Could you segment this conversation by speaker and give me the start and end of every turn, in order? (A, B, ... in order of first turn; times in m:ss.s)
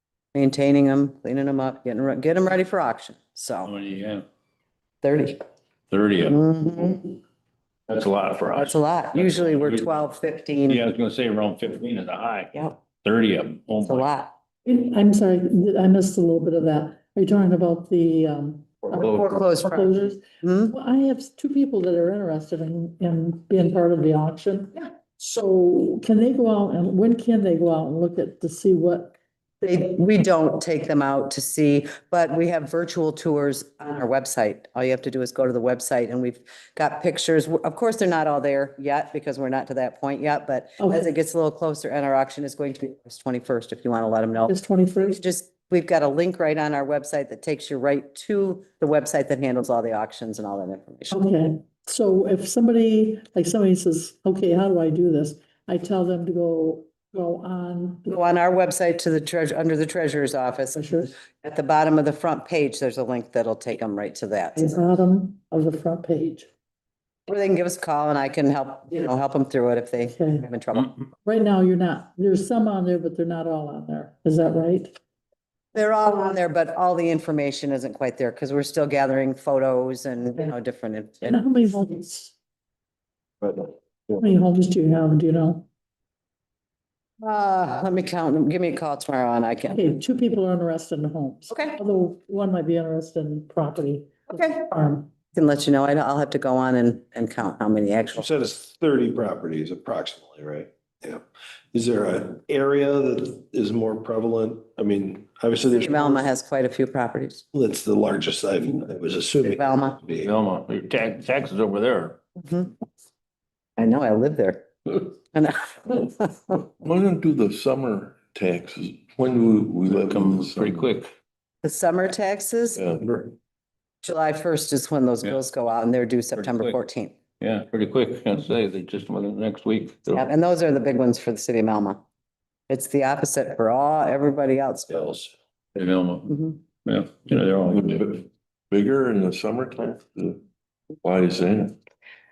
0:00.4-0:03.7 A
0:03.6-0:04.2 B
0:05.0-0:05.4 A
0:05.9-0:06.4 B
0:06.3-0:07.1 A
0:07.9-0:10.0 B
0:08.6-0:10.8 A
0:10.7-0:14.1 B
0:13.8-0:14.4 A
0:14.6-0:29.2 C
0:18.9-0:20.8 A
0:29.6-0:51.2 A
0:44.5-0:45.2 C
0:51.1-0:58.2 C
0:58.1-1:04.8 A
1:00.8-1:01.1 C
1:04.6-1:06.5 C
1:07.3-1:11.0 A
1:10.1-1:10.5 C
1:11.2-1:15.0 C
1:15.8-1:21.5 A
1:21.3-1:22.4 C
1:23.4-1:24.2 D
1:24.2-1:25.7 C
1:27.2-1:29.9 A
1:29.7-1:35.1 C
1:31.5-1:31.8 A
1:34.3-1:34.7 A
1:35.3-1:38.3 A
1:38.1-1:46.2 D
1:45.7-1:47.4 A
1:47.5-1:50.3 D
1:49.4-1:50.0 A
1:50.2-1:52.2 B
1:52.4-1:52.7 A
1:53.8-1:56.6 A
1:56.6-2:00.9 E
1:59.9-2:01.1 B
2:01.6-2:02.8 A
2:02.8-2:03.1 E
2:04.0-2:07.1 A
2:06.4-2:06.8 B
2:07.4-2:10.2 B
2:10.1-2:12.0 A
2:12.7-2:15.3 A
2:15.8-2:18.2 B
2:16.3-2:16.6 A
2:17.7-2:20.4 E
2:21.0-2:21.8 E